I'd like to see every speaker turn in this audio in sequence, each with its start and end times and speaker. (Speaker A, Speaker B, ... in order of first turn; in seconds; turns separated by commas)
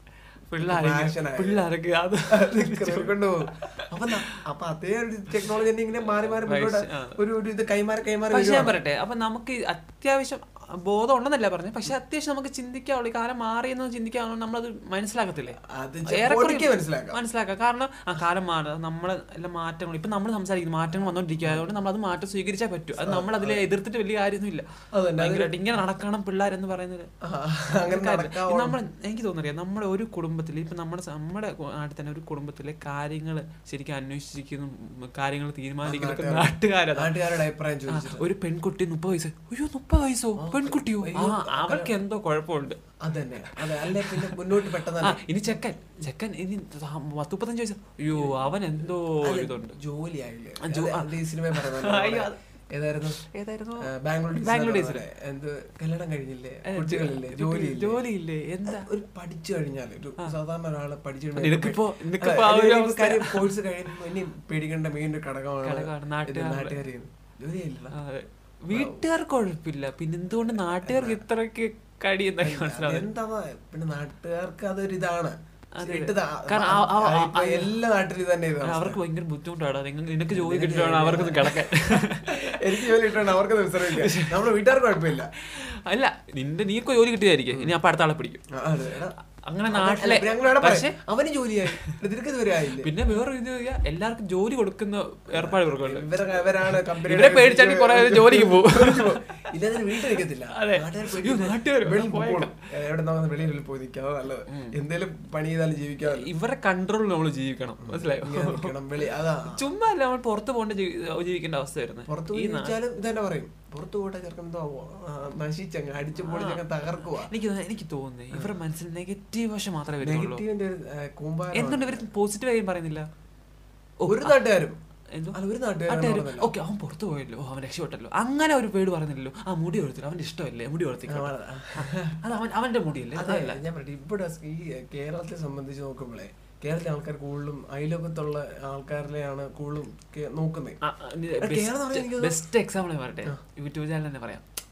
Speaker A: 0.5-4.4, Speaker B: 0.6-1.7, Speaker B: 2.3-8.8, Speaker A: 5.4-7.2, Speaker A: 8.3-15.6, Speaker B: 15.6-17.2, Speaker A: 16.1-24.7, Speaker B: 20.9-21.7, Speaker B: 23.0-23.6, Speaker B: 24.9-25.8, Speaker A: 25.2-27.1, Speaker B: 27.2-28.8, Speaker A: 27.8-42.8, Speaker B: 35.8-38.3, Speaker B: 40.4-41.9, Speaker B: 43.0-45.2, Speaker A: 43.5-49.8, Speaker B: 48.1-53.2, Speaker A: 50.6-52.4, Speaker A: 53.1-55.0, Speaker B: 53.8-58.0, Speaker A: 56.7-58.9, Speaker B: 58.7-68.0, Speaker A: 61.4-63.9, Speaker A: 65.7-66.8, Speaker A: 67.9-73.0, Speaker B: 68.7-69.0, Speaker B: 70.3-71.2, Speaker B: 72.4-79.0, Speaker A: 75.8-77.7, Speaker A: 78.6-84.5, Speaker B: 80.3-85.3, Speaker A: 85.0-88.4, Speaker B: 88.5-89.2, Speaker A: 89.5-91.0, Speaker B: 89.7-92.9, Speaker A: 92.8-102.6, Speaker B: 95.3-106.3, Speaker A: 104.5-104.8, Speaker A: 106.0-108.9, Speaker B: 107.8-109.7, Speaker A: 109.4-112.8, Speaker B: 112.1-117.3, Speaker A: 116.2-120.4, Speaker B: 120.0-122.1, Speaker A: 121.5-123.1, Speaker A: 124.0-124.5, Speaker B: 124.1-124.8, Speaker B: 125.3-126.5, Speaker A: 125.9-133.6, Speaker B: 131.1-132.2, Speaker B: 133.2-140.8, Speaker A: 140.8-144.4, Speaker B: 141.4-142.4